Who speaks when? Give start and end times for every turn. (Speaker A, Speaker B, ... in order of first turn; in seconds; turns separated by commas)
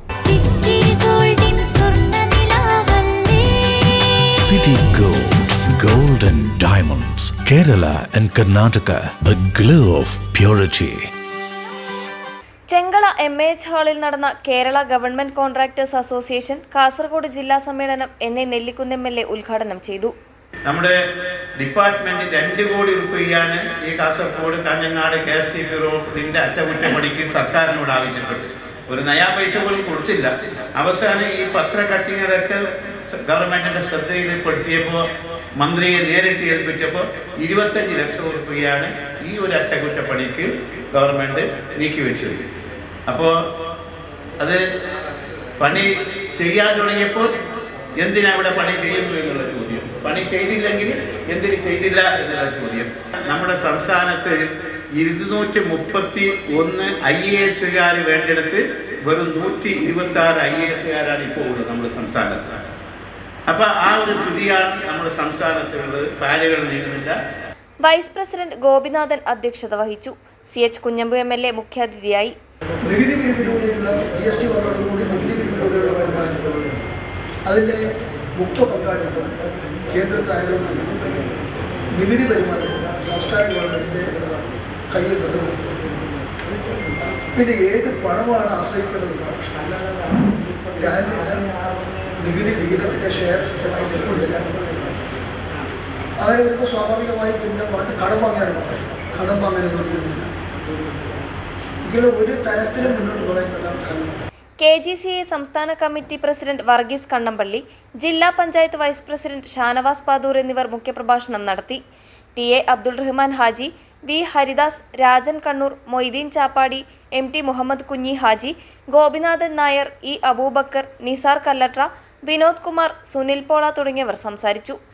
Speaker A: 0.2-4.3, Speaker B: 4.4-11.1, Speaker C: 12.7-20.1, Speaker D: 20.6-21.0, Speaker D: 21.6-32.6, Speaker D: 33.1-35.0, Speaker D: 35.6-42.4, Speaker D: 43.1-43.4, Speaker D: 45.6-47.3, Speaker D: 48.0-54.4, Speaker D: 55.0-62.6, Speaker D: 63.5-67.2, Speaker C: 67.8-72.3, Speaker E: 72.8-76.6, Speaker E: 77.5-77.8, Speaker E: 78.4-79.4, Speaker E: 79.9-81.0, Speaker E: 82.0-85.7, Speaker E: 87.3-89.7, Speaker E: 90.8-91.5, Speaker E: 92.2-94.5, Speaker E: 96.2-100.3, Speaker E: 101.9-104.2, Speaker C: 104.6-111.8, Speaker C: 112.4-124.8